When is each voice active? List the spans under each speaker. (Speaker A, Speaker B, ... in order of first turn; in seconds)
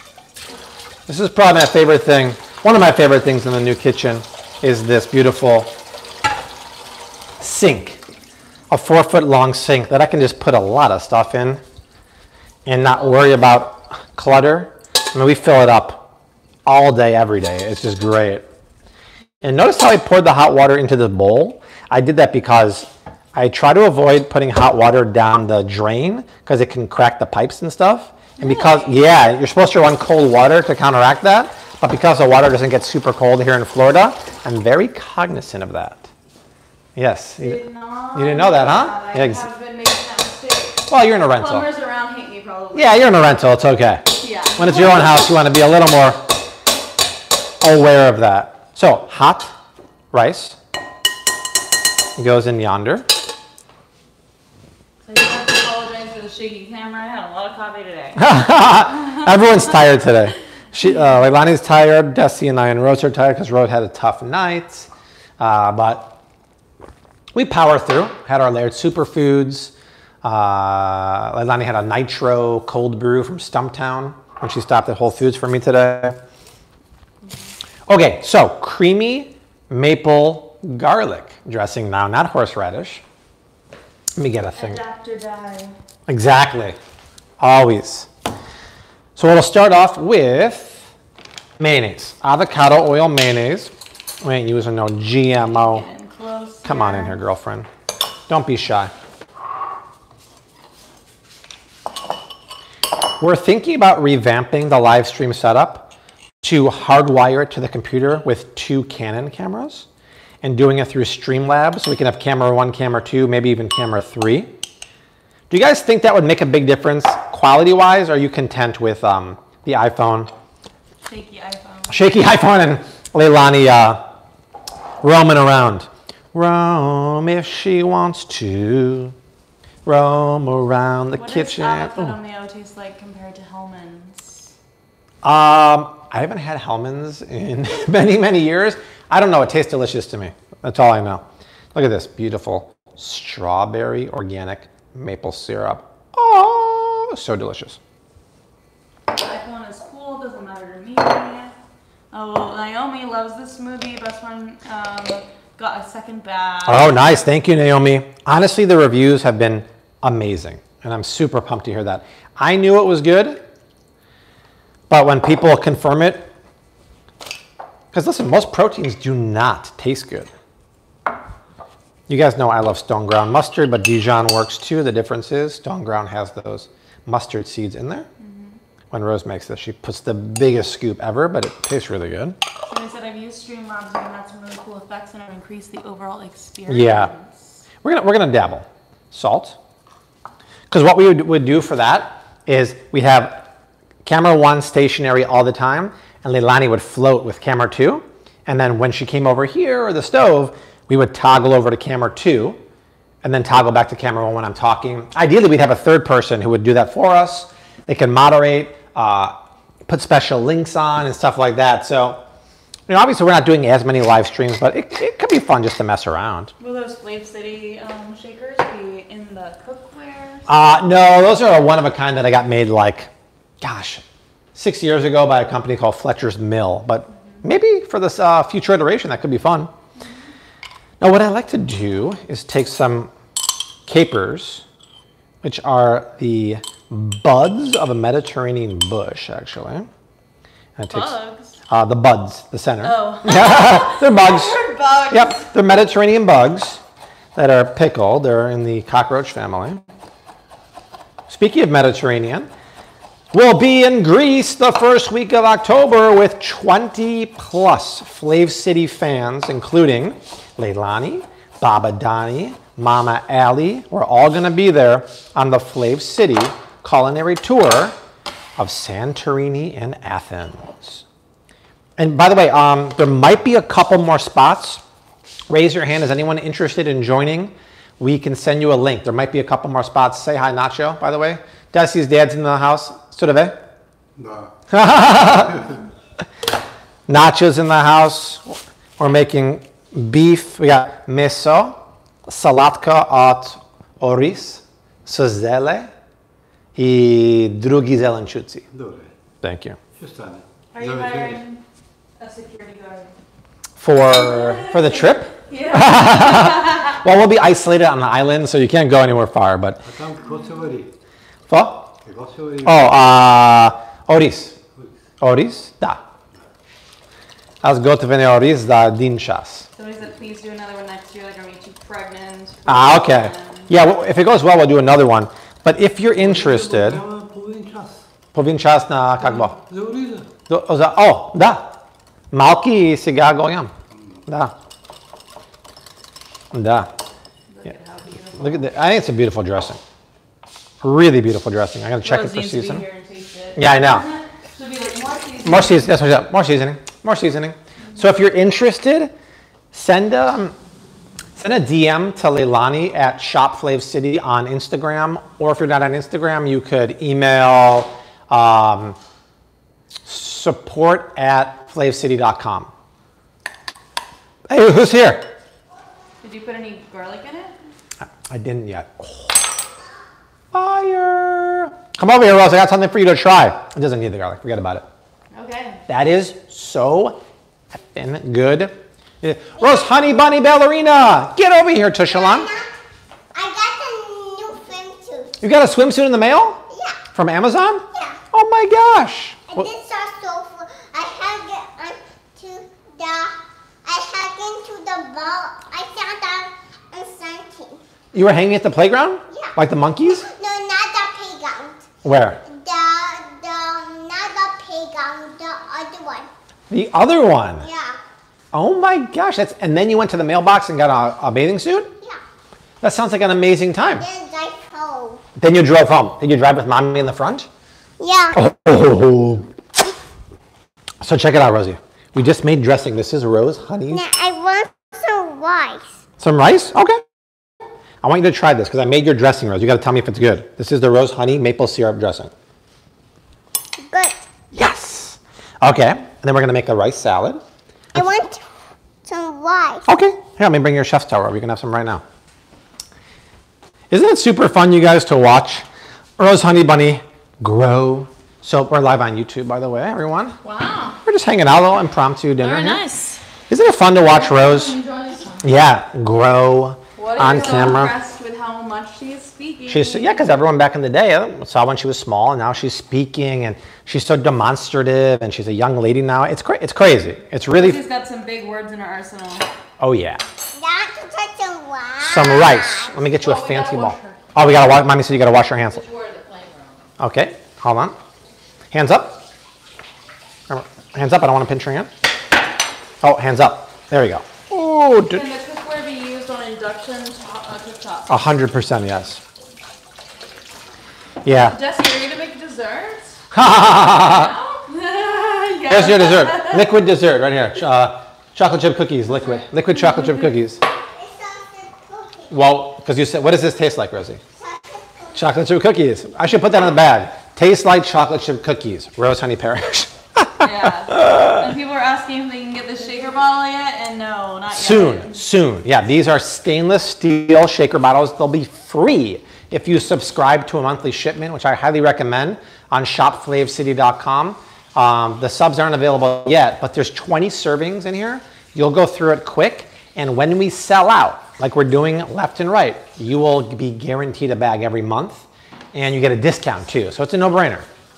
Speaker A: 1.1-5.7, 7.4-8.0, 8.7-11.6, 12.7-16.1, 16.6-18.4, 19.4-36.1, 37.0-37.6, 38.1-39.4, 40.9-41.7, 42.7-46.2, 47.6-49.5, 50.1-50.6, 52.2-53.0, 58.1-64.9, 65.4-66.2, 67.3-76.2, 77.9-83.0, 84.2-84.8, 86.1-86.8, 87.4-88.1, 89.2-90.9, 91.6-95.8, 96.6-97.7, 98.3-98.9, 103.2-105.9, 106.4-109.8, 110.4-114.5, 115.5-120.3, 121.9-124.0, 125.0-129.1, 129.8-132.2, 135.2-147.8, 156.7-163.4, 164.9-166.3, 167.9-170.3, 172.1-178.1, 178.9-182.4, 186.7-187.1, 187.8-189.6, 190.7-193.5, 194.0-202.6, 203.2-212.2, 212.9-216.5, 220.5-223.1, 223.6-224.0, 224.5-229.7, 231.0-233.1, 233.9-234.6, 235.4-239.9, 240.8-241.2, 241.7-244.6, 245.1-246.8, 247.3-249.8, 251.3-252.5, 253.3-267.9, 268.6-271.0, 272.0-274.8, 275.5-283.6, 284.7-285.7, 287.1-295.9, 296.8-298.6, 299.4-299.8, 303.8-309.8, 311.5-311.9, 312.6-314.6, 315.2-316.0, 317.6-319.7, 322.7-327.0, 328.3-329.5, 330.5-331.8, 332.3-333.7, 334.3-334.5, 336.5-336.9, 338.4-339.8, 340.8-342.8, 343.6-344.1, 345.4-349.1, 349.7-350.5, 351.4-359.0, 360.1-362.7, 364.5-365.3, 368.1-369.4, 370.5-374.8, 375.9-377.2, 377.9-382.5, 385.4-386.6, 387.1-389.7, 398.1-400.3, 402.0-402.4, 406.7-407.6, 408.5-411.9, 412.8-414.1, 415.4-417.5, 418.3-419.5, 421.0-424.0, 426.2-427.0, 428.0-432.3, 434.5-437.4, 439.9-442.0, 443.9-445.6, 446.2-450.4, 451.0-452.8, 453.5-454.8, 455.4-457.9, 459.7-467.8, 469.8-470.2, 472.0-475.8, 477.0-477.9, 478.7-479.2, 480.5-481.9, 483.0-485.2, 488.1-489.2, 491.2-491.6, 493.3-494.3, 495.7-500.6, 502.3-504.2, 505.1-511.5, 514.5-537.6
Speaker B: 28.4-29.0, 37.4-43.2, 44.1-45.1, 55.0-58.3, 84.5-85.7, 95.5-97.2, 121.0-122.0, 131.1-134.5, 149.1-151.6, 152.1-157.2, 178.2-178.6, 182.7-187.4, 216.6-220.4, 240.9-241.6, 242.8-245.5, 300.7-301.6, 302.2-303.1, 304.1-306.9, 319.8-323.7, 337.5-338.7, 342.0-345.9, 366.2-367.6, 375.3-375.8, 450.4-451.0, 457.0-460.3, 467.5-469.5, 485.1-488.2, 491.2-493.2, 493.8-496.8, 510.4-515.2
Speaker C: 284.2-284.5, 298.7-299.1, 299.9-301.4, 309.8-310.9, 312.0-312.8, 326.2-328.0, 329.3-330.3
Speaker D: 382.1-382.7, 383.3-385.4, 386.7-387.0, 389.5-397.8, 400.2-401.9, 402.4-406.3, 407.6-408.0, 414.0-415.2, 418.0-418.4, 423.9-425.9, 433.9-434.2, 437.9-438.4, 439.0-439.9, 470.5-472.9, 500.9-502.3, 504.4-505.1
Speaker E: 452.4-453.2, 454.2-455.5, 457.0-457.7, 473.2-474.1, 475.7-476.8